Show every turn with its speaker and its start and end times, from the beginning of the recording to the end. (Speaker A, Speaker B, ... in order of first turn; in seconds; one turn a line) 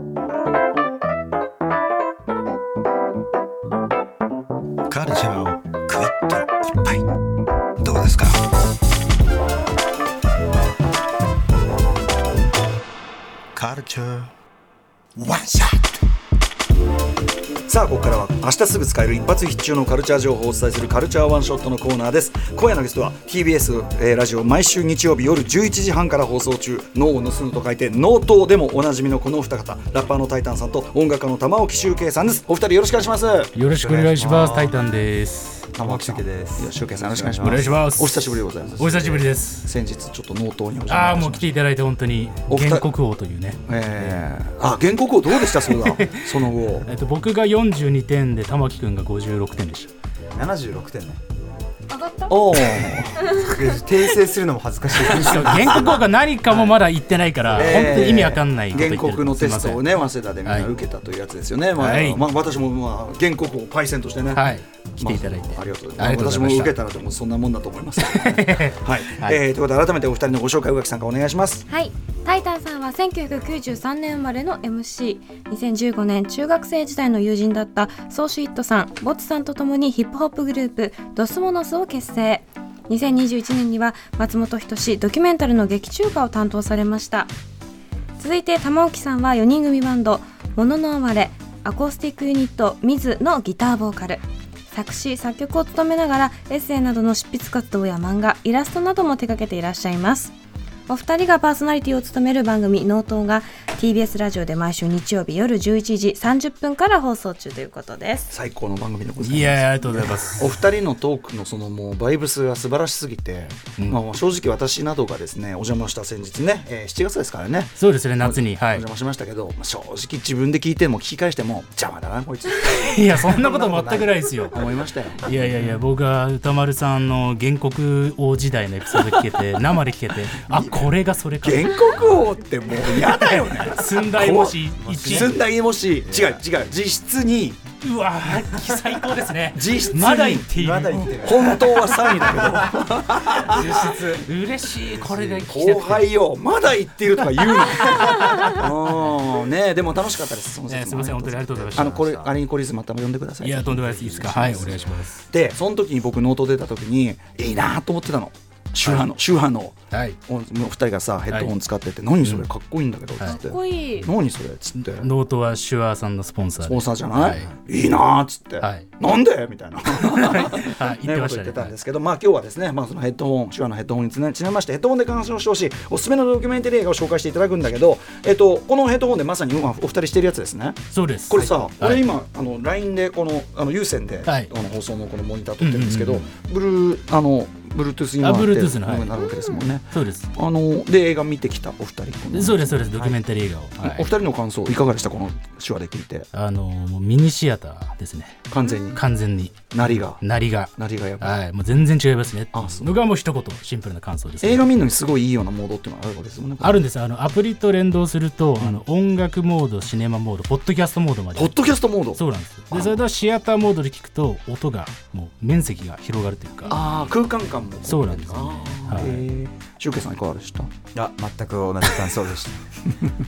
Speaker A: 4.9-7.0
Speaker A: 7.8-8.4
Speaker A: 13.6-14.3
Speaker A: 15.2-15.8
Speaker B: 17.7-33.5
Speaker C: 33.5-35.7
Speaker D: 33.7-34.8
Speaker D: 35.8-37.7
Speaker B: 35.8-41.6
Speaker C: 37.4-39.7
Speaker C: 40.9-44.2
Speaker B: 42.5-42.9
Speaker B: 43.7-46.9
Speaker C: 45.4-49.9
Speaker D: 50.3-51.2
Speaker E: 51.9-52.3
Speaker B: 52.3-53.3
Speaker D: 53.0-56.0
Speaker C: 55.0-60.7
Speaker B: 55.1-55.9
Speaker B: 57.5-64.5
Speaker C: 61.7-62.2
Speaker C: 64.3-66.8
Speaker B: 65.0-71.6
Speaker C: 68.0-69.4
Speaker E: 71.7-87.3
Speaker E: 88.2-100.3
Speaker E: 100.9-108.3
Speaker B: 108.3-123.2
Speaker C: 109.2-110.6
Speaker C: 117.8-118.8
Speaker C: 122.6-124.7
Speaker D: 123.3-124.2
Speaker B: 124.5-125.3
Speaker C: 125.2-132.2
Speaker D: 130.5-130.9
Speaker B: 131.4-137.6
Speaker C: 132.8-135.4
Speaker D: 134.8-135.4
Speaker D: 136.0-136.4
Speaker C: 137.8-142.3
Speaker B: 139.5-140.5
Speaker D: 140.6-143.0
Speaker B: 141.2-143.9
Speaker D: 143.5-144.2
Speaker C: 143.5-146.1
Speaker B: 145.4-159.8
Speaker C: 148.0-149.0
Speaker C: 150.7-152.3
Speaker D: 151.8-152.3
Speaker C: 153.4-155.2
Speaker C: 158.8-159.1
Speaker C: 159.9-160.2
Speaker B: 160.3-165.1
Speaker C: 161.3-161.5
Speaker E: 163.2-164.1
Speaker C: 164.8-167.5
Speaker B: 166.6-192.9
Speaker C: 168.6-168.9
Speaker C: 169.9-171.7
Speaker C: 180.9-182.0
Speaker C: 184.2-184.5
Speaker C: 185.6-186.3
Speaker C: 188.2-189.2
Speaker C: 189.9-190.3
Speaker C: 192.3-194.1
Speaker B: 193.8-196.3
Speaker C: 196.3-204.8
Speaker B: 198.5-199.0
Speaker B: 199.7-200.2
Speaker B: 200.8-201.3
Speaker B: 202.5-202.9
Speaker B: 204.4-206.8
Speaker C: 206.6-216.9
Speaker B: 211.3-213.0
Speaker B: 216.7-220.7
Speaker C: 217.8-219.2
Speaker D: 220.9-222.7